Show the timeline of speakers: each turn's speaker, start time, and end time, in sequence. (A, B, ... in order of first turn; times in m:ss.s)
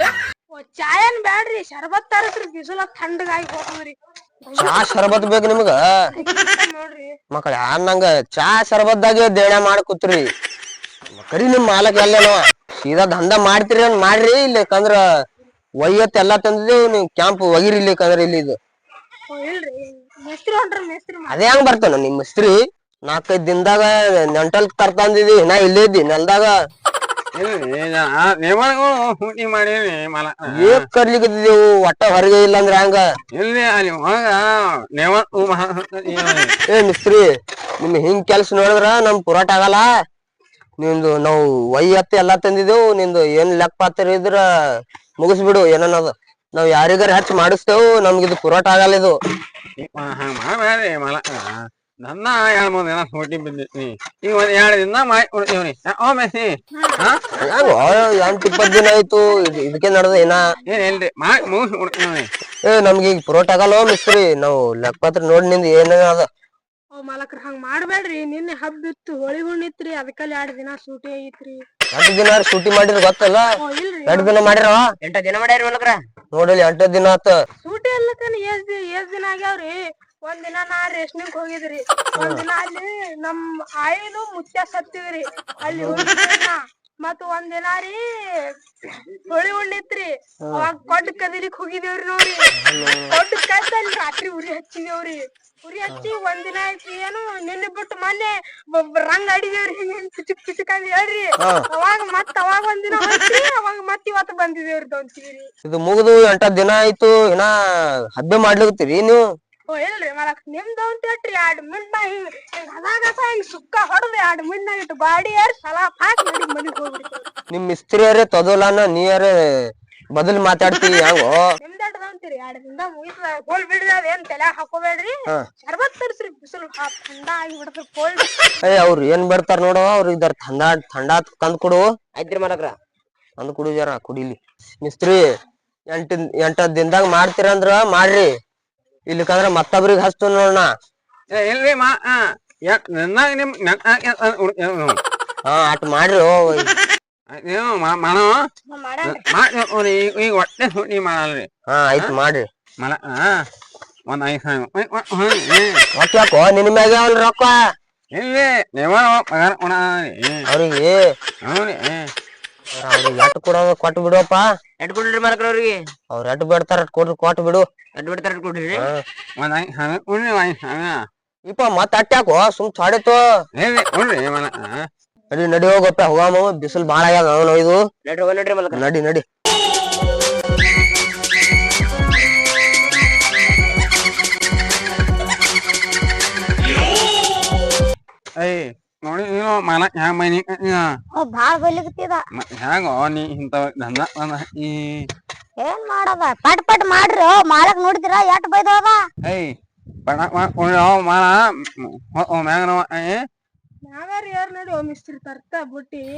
0:00.5-0:05.3 A
0:04.6-0:05.8 B
0:06.2-0:07.1 A
0:07.3-0:10.2 B
0:11.2-0:15.0 B
0:15.8-0:18.6 B
0:19.3-0:21.4 A
0:21.3-0:26.5 B
0:27.4-0:30.8 C
0:30.5-0:33.0 B
0:33.3-0:36.6 C
0:36.7-0:37.2 B
0:37.8-0:39.9 B
0:40.8-0:49.1 B
0:49.8-0:57.2 C
0:56.8-0:57.0 A
0:57.4-1:00.5 B
0:57.5-0:58.4 A
1:00.7-1:02.3 C
1:02.7-1:06.3 B
1:06.9-1:11.6 A
1:11.9-1:13.5 B
1:13.6-1:14.5 A
1:14.1-1:14.8 B
1:15.0-1:16.0 D
1:16.3-1:17.4 B
1:17.6-1:28.5 A
1:22.2-1:22.4 B
1:25.6-1:26.1 B
1:29.3-1:32.4 A
1:32.6-1:33.2 B
1:33.1-1:45.5 A
1:45.6-1:47.5 B
1:48.1-1:49.2 B
1:49.7-1:57.3 A
1:57.5-2:01.4 B
2:01.6-2:08.5 A
2:08.6-2:11.8 B
2:12.2-2:12.7 D
2:13.4-2:15.2 B
2:15.9-2:18.3 B
2:19.1-2:20.7 B
2:21.3-2:25.0 C
2:25.5-2:26.7 B
2:27.3-2:28.3 C
2:28.7-2:29.2 E
2:29.0-2:31.5 C
2:31.7-2:32.5 B
2:32.8-2:33.4 C
2:34.1-2:35.8 C
2:36.0-2:37.6 B
2:38.1-2:40.4 C
2:40.5-2:41.0 B
2:41.4-2:42.1 C
2:42.8-2:44.5 B
2:44.8-2:45.8 D
2:46.1-2:47.7 B
2:48.0-2:48.9 D
2:48.8-2:49.0 B
2:49.4-2:51.0 C
2:51.5-2:53.2 B
2:53.6-2:54.8 C
2:55.3-2:57.8 B
2:58.0-2:58.8 D
2:58.7-2:59.2 B
3:08.4-3:10.8 C
3:11.2-3:12.2 E
3:12.4-3:15.1 C
3:15.6-3:19.0 E
3:19.2-3:19.5 C
3:20.1-3:23.2 C
3:23.8-3:26.1 A